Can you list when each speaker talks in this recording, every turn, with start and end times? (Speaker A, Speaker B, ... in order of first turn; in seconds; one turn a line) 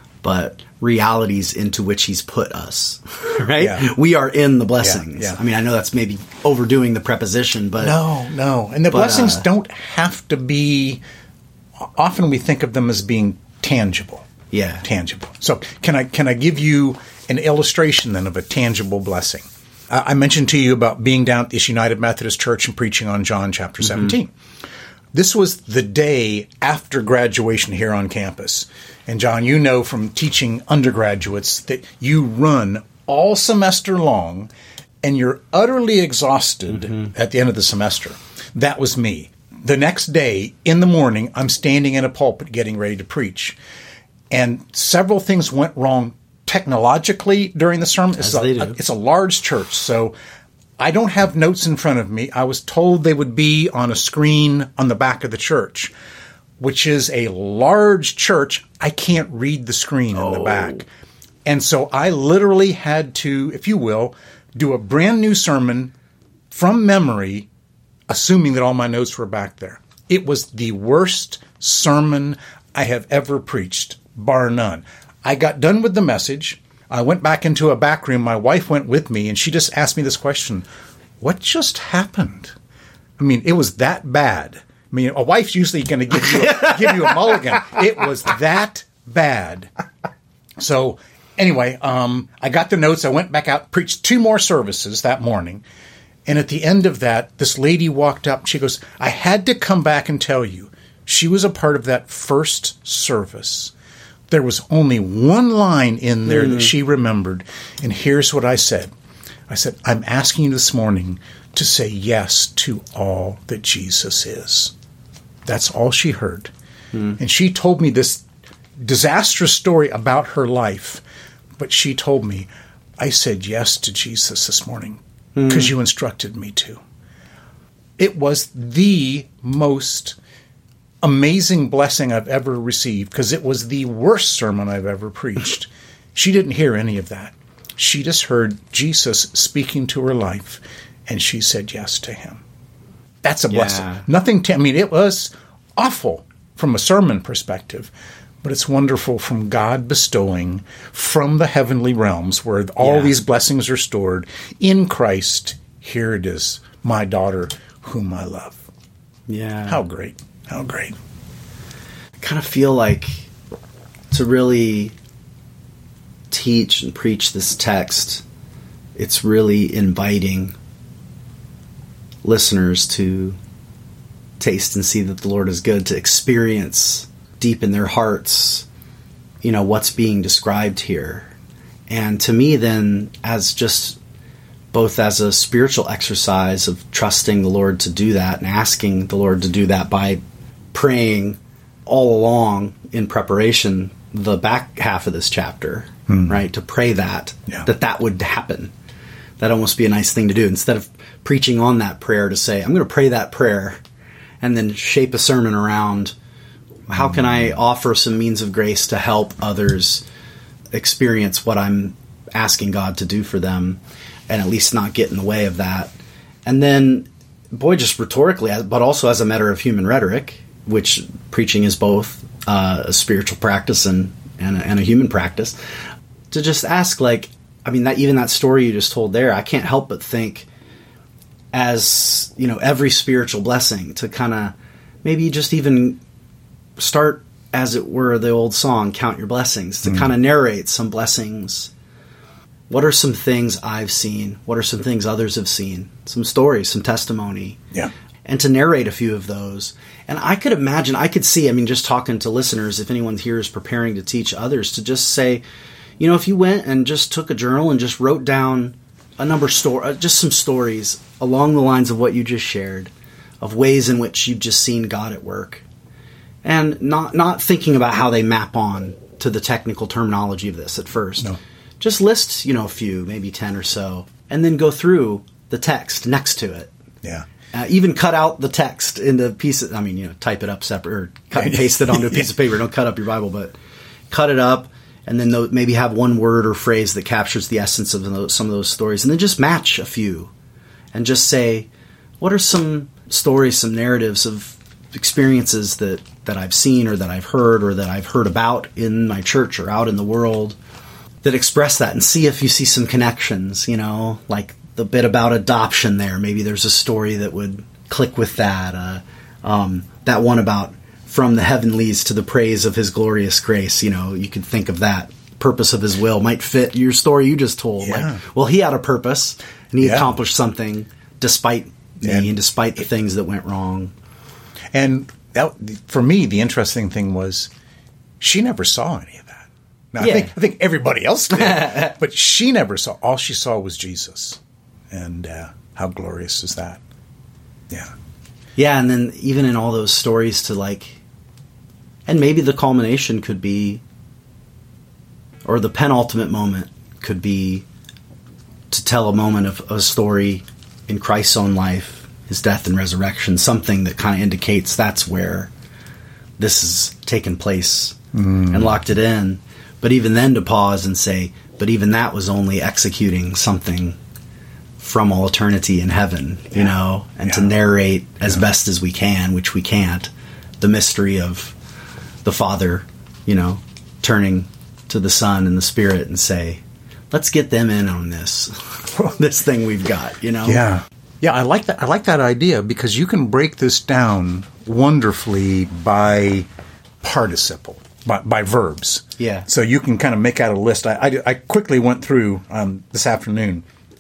Speaker A: 0.2-8.0
Speaker B: 3.6-3.9
Speaker B: 4.8-5.4
Speaker B: 7.8-11.0
Speaker A: 8.9-9.4
Speaker B: 11.8-14.3
Speaker A: 14.5-14.8
Speaker B: 14.8-24.3
Speaker A: 23.8-24.1
Speaker B: 25.1-34.5
Speaker B: 35.0-43.6
Speaker B: 44.3-50.1
Speaker A: 48.2-48.8
Speaker B: 50.8-55.9
Speaker B: 56.6-60.9
Speaker A: 60.1-60.8
Speaker B: 61.5-65.9
Speaker B: 66.5-67.5
Speaker B: 68.1-80.7
Speaker B: 81.2-82.5
Speaker B: 83.2-89.7
Speaker B: 90.6-95.6
Speaker B: 96.3-103.7
Speaker B: 104.3-108.9
Speaker A: 106.3-106.7
Speaker B: 109.5-114.7
Speaker B: 115.5-116.5
Speaker B: 117.2-118.2
Speaker B: 118.8-121.0
Speaker B: 121.6-122.5
Speaker B: 123.0-126.8
Speaker A: 125.4-125.7
Speaker B: 128.0-130.2
Speaker B: 131.0-142.4
Speaker B: 143.2-147.9
Speaker A: 143.5-144.1
Speaker B: 148.4-158.7
Speaker A: 152.8-153.1
Speaker A: 159.3-159.8
Speaker B: 159.7-160.9
Speaker A: 162.2-163.3
Speaker A: 164.1-164.9
Speaker A: 166.3-168.2
Speaker A: 169.0-170.6
Speaker A: 172.2-173.4
Speaker A: 174.4-178.7
Speaker A: 179.4-181.3
Speaker A: 181.9-184.0
Speaker A: 184.7-190.2
Speaker A: 190.7-198.7
Speaker A: 199.4-203.8
Speaker A: 204.4-206.1
Speaker A: 206.9-210.1
Speaker A: 210.7-215.9
Speaker A: 216.5-225.6
Speaker A: 226.3-230.5
Speaker A: 231.5-236.0
Speaker A: 236.8-241.7
Speaker A: 242.7-247.6
Speaker A: 248.3-255.4
Speaker A: 256.0-265.6
Speaker A: 266.4-276.7
Speaker A: 277.5-283.6
Speaker B: 281.4-282.3
Speaker A: 284.1-290.3
Speaker A: 290.9-291.7
Speaker A: 292.2-300.6
Speaker A: 301.2-323.9
Speaker B: 317.8-318.2
Speaker B: 319.8-320.1
Speaker B: 322.0-322.3
Speaker B: 324.7-327.5
Speaker B: 328.2-336.8
Speaker A: 330.0-330.3
Speaker A: 331.4-331.9
Speaker A: 338.6-341.0
Speaker A: 342.1-343.8
Speaker A: 345.4-347.6
Speaker A: 348.7-355.5
Speaker A: 356.4-358.0
Speaker B: 358.1-358.6
Speaker A: 358.5-364.0
Speaker A: 364.8-370.1
Speaker A: 370.6-371.6
Speaker A: 372.2-380.6
Speaker B: 380.4-386.5
Speaker B: 387.0-393.6
Speaker A: 389.2-389.5